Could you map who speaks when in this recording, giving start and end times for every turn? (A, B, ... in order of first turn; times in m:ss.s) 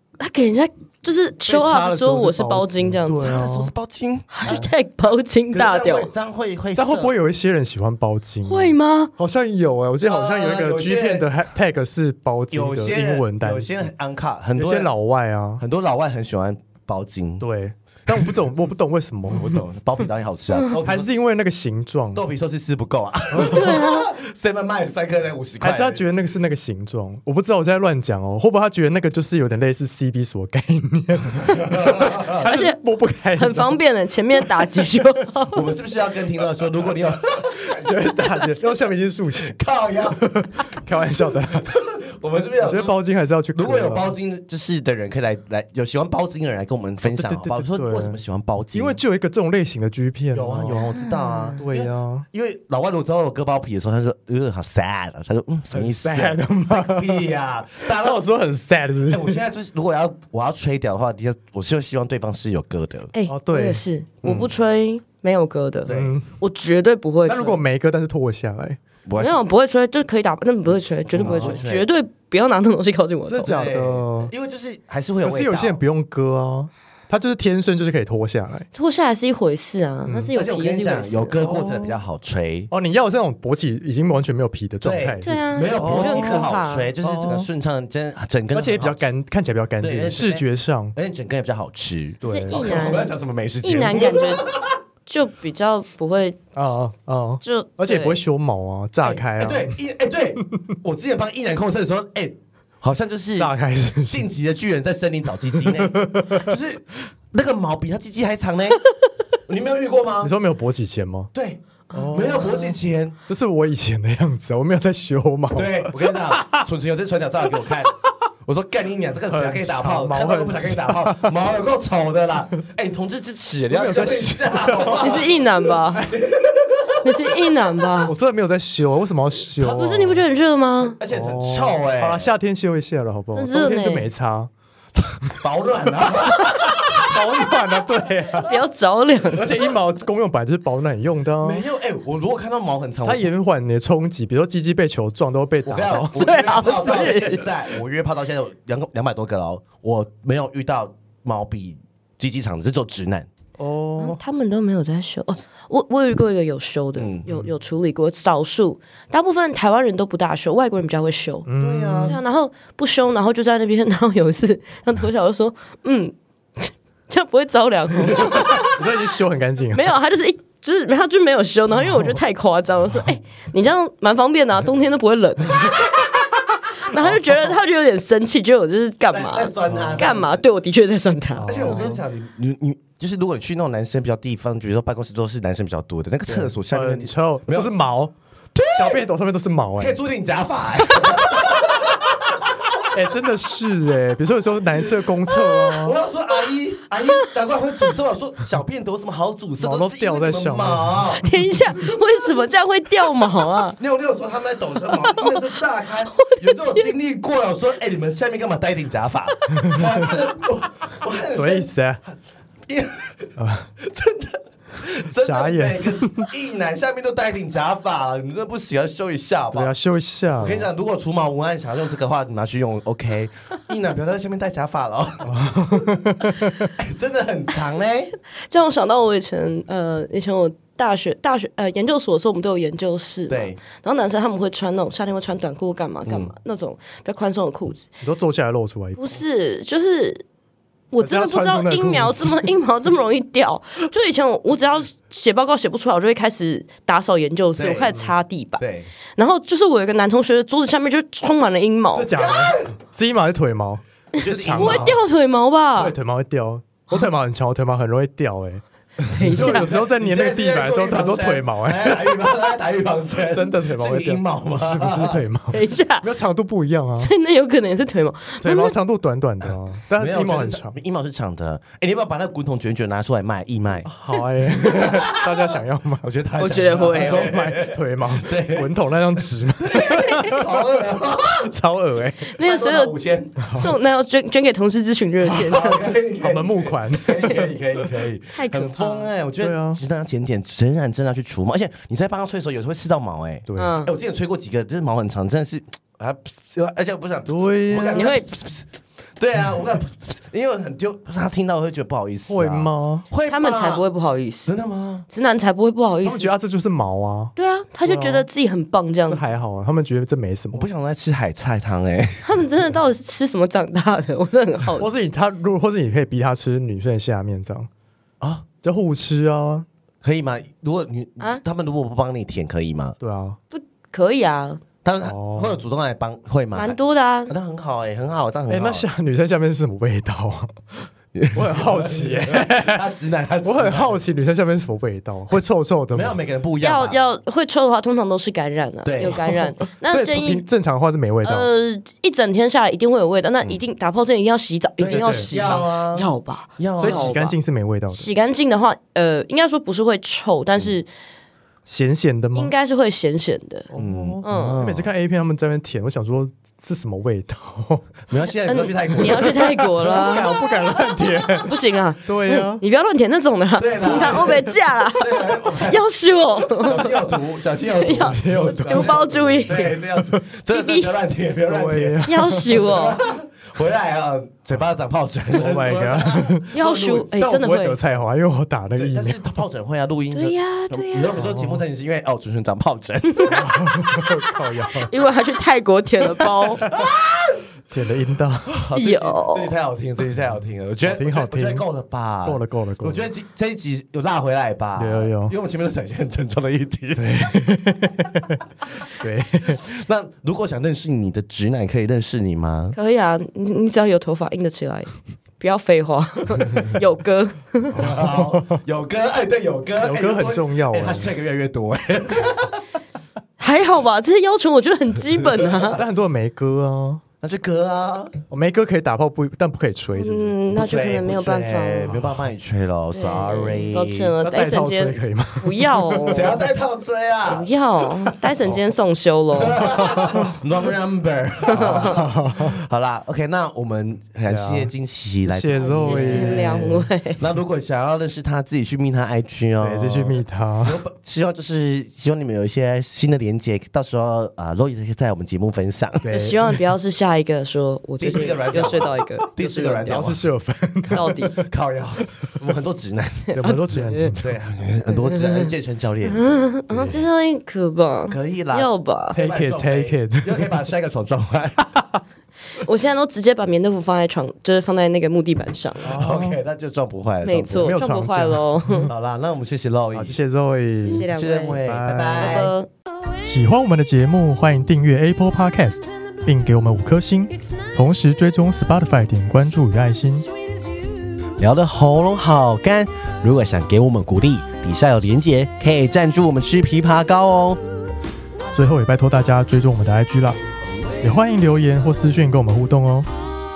0:00.2-0:03.3 A
0:01.5-0:03.7 B
0:03.1-0:04.7 C
0:04.3-0:06.1 A
0:05.5-0:07.1 C
0:06.8-0:13.9 B
0:08.5-0:09.1 A
0:10.0-0:11.3 C
0:12.5-0:14.9 C
0:14.6-0:15.6 B
0:15.6-0:17.5 C
0:17.4-0:19.6 B
0:18.1-0:18.4 C
0:19.3-0:21.1 C
0:20.8-0:22.3 B
0:22.1-0:26.0 C
0:23.3-0:23.6 B
0:23.4-0:24.1 A
0:25.6-0:33.8 B
0:31.5-0:32.5 C
0:32.4-0:32.8 A
0:33.4-0:35.7 A
0:34.4-0:34.9 B
0:35.5-0:38.0 C
0:37.6-0:39.6 B
0:39.4-0:40.2 C
0:40.2-0:41.7 B
0:41.3-0:43.0 C
0:42.6-0:44.1 B
0:43.5-0:49.0 C
0:47.0-0:48.2 B
0:48.7-0:50.8 B
0:50.3-0:58.2 C
0:50.7-0:51.6 A
0:51.6-0:52.3 B
0:55.7-0:59.4 B
0:59.1-1:03.1 C
1:03.1-1:07.6 A
1:03.3-1:03.8 B
1:04.2-1:04.5 C
1:05.9-1:06.2 C
1:05.9-1:06.3 B
1:07.3-1:08.8 B
1:09.1-1:09.4 C
1:09.2-1:13.5 A
1:11.1-1:11.9 C
1:11.2-1:11.6 B
1:13.3-1:14.3 B
1:13.4-1:15.8 C
1:15.2-1:18.7 B
1:18.7-1:21.5 A
1:20.3-1:22.7 C
1:21.4-1:22.0 B
1:22.7-1:26.4 B
1:24.8-1:29.1 C
1:25.2-1:26.9 A
1:27.0-1:27.5 B
1:28.5-1:31.0 B
1:29.8-1:34.8 C
1:32.2-1:32.7 B
1:32.2-1:33.1 A
1:33.6-1:34.5 A
1:35.1-1:36.4 A
1:36.6-1:39.8 B
1:37.4-1:38.2 A
1:39.0-1:43.5 C
1:40.4-1:40.8 B
1:43.4-1:44.3 B
1:44.1-1:48.8 C
1:45.5-1:46.5 B
1:49.5-1:50.3 C
1:50.2-1:51.3 B
1:51.3-1:53.2 C
1:51.9-1:52.8 B
1:53.3-1:56.6 B
1:55.5-1:57.9 C
1:58.4-2:07.4 C
1:59.3-2:01.4 B
2:03.7-2:05.2 B
2:05.0-2:06.1 A
2:07.0-2:08.1 A
2:08.0-2:10.2 B
2:09.6-2:11.0 A
2:09.8-2:10.2 C
2:11.0-2:12.3 C
2:11.1-2:14.5 B
2:13.4-2:14.1 A
2:15.3-2:17.2 C
2:16.0-2:18.5 B
2:18.4-2:19.6 A
2:19.3-2:21.6 B
2:21.4-2:23.3 C
2:23.0-2:26.3 B
2:25.7-2:33.3 C
2:26.2-2:27.4 A
2:33.6-2:34.2 B
2:34.0-2:41.5 A
2:37.0-2:37.3 C
2:41.5-2:42.2 B
2:41.6-2:42.2 C
2:42.1-2:48.9 A
2:48.2-2:49.9 B
2:49.7-2:56.1 A
2:51.8-2:52.2 B
2:56.9-3:01.8 A
2:59.1-3:00.4 C
2:59.7-3:00.0 B
3:01.4-3:02.0 B
3:01.5-3:07.7 C
3:06.3-3:08.2 B
3:08.6-3:09.0 C
3:08.7-3:10.0 B
3:09.8-3:12.9 C
3:12.9-3:16.0 B
3:15.6-3:21.2 C
3:19.6-3:21.2 B
3:21.2-3:23.8 A
3:23.8-3:31.7 C
3:24.9-3:25.4 A
3:26.1-3:26.9 A
3:29.5-3:30.1 B
3:31.3-3:32.0 B
3:32.7-3:39.7 C
3:33.4-3:33.7 B
3:35.2-3:36.3 B
3:39.5-3:40.7 B
3:40.4-3:45.7 C
3:45.2-3:46.7 B
3:46.8-3:48.1 C
3:48.5-3:57.9 A
3:53.3-3:53.6 C
3:56.1-3:56.3 C
3:58.0-3:59.2 B
3:59.0-4:00.2 A
4:00.9-4:08.6 A
4:01.0-4:02.5 B
4:07.6-4:08.0 C
4:08.6-4:08.9 C
4:09.2-4:12.1 A
4:12.0-4:15.0 B
4:12.2-4:12.7 C
4:14.2-4:15.0 C
4:14.2-4:16.0 A
4:15.8-4:18.6 B
4:19.1-4:19.8 A
4:19.2-4:25.2 C
4:19.2-4:22.2 B
4:23.3-4:27.1 B
4:25.5-4:26.1 A
4:27.0-4:28.8 A
4:28.4-4:30.8 B
4:29.4-4:33.9 C
4:33.8-4:36.1 B
4:34.5-4:41.5 C
4:36.4-4:37.3 A
4:37.0-4:40.4 B
4:41.3-4:42.4 B
4:42.3-4:43.0 A
4:42.4-4:43.5 C
4:43.4-4:43.7 B
4:43.5-4:45.9 A
4:45.4-5:03.8 C
4:46.2-4:47.5 B
4:48.3-4:49.1 A
4:49.4-4:49.8 B
4:53.5-4:53.8 B
4:53.6-4:53.9 A
4:57.3-4:58.1 B
4:57.9-4:58.2 A
5:02.3-5:03.1 B
5:03.3-5:04.5 A
5:04.5-5:05.1 C
5:05.1-5:06.3 A
5:06.0-5:07.3 B
5:07.4-5:09.2 A
5:07.8-5:08.3 B
5:09.1-5:10.7 B
5:10.5-5:12.3 C
5:12.2-5:15.0 A
5:14.8-5:17.7 B
5:18.2-5:18.5 C
5:18.6-5:19.7 B
5:20.0-5:23.0 C
5:23.0-5:23.4 B
5:23.5-5:24.6 A
5:24.8-5:28.9 C
5:25.0-5:25.6 B
5:26.6-5:27.3 A
5:28.5-5:32.9 B
5:31.1-5:34.0 C
5:33.4-5:36.2 B
5:35.9-5:37.0 C
5:36.6-5:40.4 A
5:38.8-5:39.4 C
5:39.6-5:41.5 B
5:41.2-5:47.4 A
5:44.8-5:47.1 C
5:44.9-5:45.3 B
5:46.8-5:48.1 B
5:47.9-5:50.9 A
5:51.7-5:52.5 B
5:52.4-5:53.7 A
5:53.7-5:57.9 B
5:53.8-5:54.9 C
5:54.2-5:54.6 A
5:58.1-6:01.3 C
5:58.5-6:00.4 A
5:59.0-6:01.5 B
6:01.4-6:07.1 A
6:02.0-6:02.6 B
6:03.6-6:05.9 C
6:03.9-6:04.4 B
6:06.4-6:17.1 C
6:07.7-6:09.8 A
6:07.9-6:10.3 B
6:10.5-6:10.9 A
6:11.5-6:12.6 B
6:12.0-6:13.0 A
6:15.3-6:16.6 B
6:16.5-6:17.8 A
6:17.2-6:19.3 B
6:18.8-6:24.0 C
6:20.1-6:21.2 A
6:21.2-6:21.6 B
6:23.2-6:24.9 B
6:24.8-6:26.6 A
6:26.6-6:26.9 B
6:26.7-6:27.4 C
6:27.7-6:28.6 B
6:28.5-6:37.3 C
6:28.7-6:29.5 A
6:30.8-6:31.7 B
6:32.2-6:33.1 B
6:34.8-6:35.4 B
6:37.0-6:38.5 B
6:39.0-6:39.6 B
6:39.5-6:42.8 C
6:42.7-6:47.8 A
6:47.7-6:52.6 C
6:47.8-6:48.6 B
6:49.8-6:51.1 B
6:53.4-6:55.8 A
6:55.2-6:55.8 C
6:55.8-6:57.0 B
6:57.2-6:58.1 C
6:58.3-7:00.3 B
7:00.0-7:02.0 A
7:00.5-7:04.2 C
7:03.0-7:06.4 A
7:04.2-7:06.3 B
7:06.1-7:07.5 C
7:07.3-7:09.7 A
7:09.4-7:26.1 C
7:09.6-7:10.4 B
7:11.5-7:11.9 A
7:11.5-7:12.6 B
7:14.3-7:14.7 B
7:15.2-7:16.9 B
7:15.6-7:17.2 A
7:19.6-7:20.8 B
7:26.0-7:26.6 B
7:26.1-7:29.9 A
7:28.0-7:30.2 C
7:29.8-7:31.5 B
7:30.9-7:31.4 A
7:30.9-7:33.5 C
7:33.3-7:34.2 A
7:33.4-7:34.3 B
7:34.2-7:37.0 C
7:34.9-7:35.5 A
7:36.1-7:39.2 A
7:38.1-7:41.7 C
7:39.1-7:40.5 B
7:41.7-7:42.0 B
7:42.6-7:45.9 A
7:45.8-7:46.4 B
7:45.8-7:47.8 C
7:47.2-7:48.9 A
7:47.6-7:48.9 B
7:48.9-7:50.2 C
7:49.9-7:52.4 B
7:50.9-7:51.6 A
7:51.0-7:52.5 C
7:52.1-7:52.7 A
7:53.2-8:00.3 B
8:01.4-8:07.6 C
8:08.5-8:10.4 B
8:11.0-8:13.1 B